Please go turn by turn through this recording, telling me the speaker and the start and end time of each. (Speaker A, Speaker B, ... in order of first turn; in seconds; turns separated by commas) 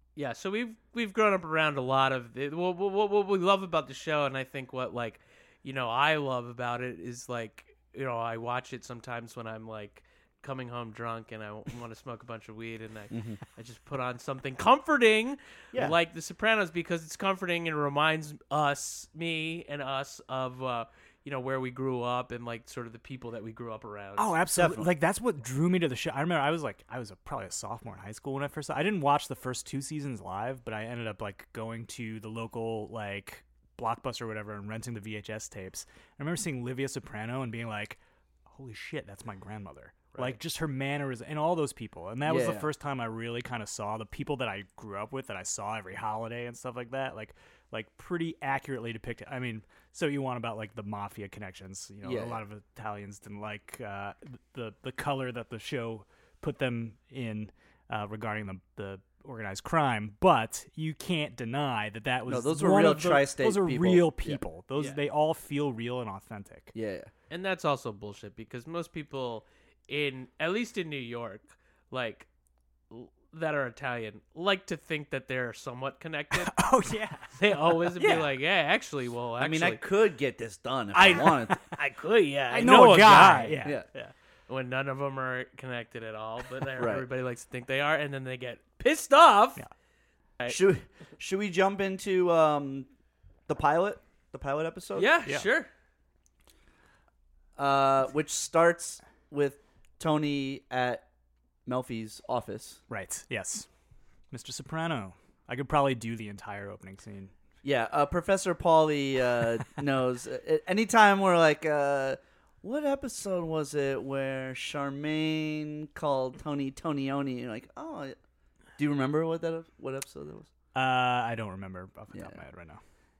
Speaker A: 0.1-24.4, Speaker B: 13.1-13.4, Speaker C: 24.2-66.7, Speaker B: 24.5-24.9, Speaker B: 42.2-42.7, Speaker B: 52.0-52.4, Speaker B: 62.3-64.4, Speaker B: 66.7-67.1, Speaker A: 67.3-72.3, Speaker A: 72.9-76.5, Speaker C: 76.4-78.3, Speaker A: 77.3-79.8, Speaker B: 79.4-81.6, Speaker A: 80.9-83.7, Speaker C: 82.5-84.1, Speaker B: 82.6-83.8, Speaker A: 84.5-89.6, Speaker B: 86.8-87.0, Speaker B: 90.5-92.9, Speaker B: 93.5-95.1, Speaker A: 95.0-95.7, Speaker B: 97.5-101.0, Speaker B: 101.7-102.8, Speaker C: 102.9-103.7, Speaker C: 104.3-107.3, Speaker B: 107.6-118.2, Speaker B: 118.8-120.5, Speaker C: 120.7-122.8, Speaker B: 122.1-122.4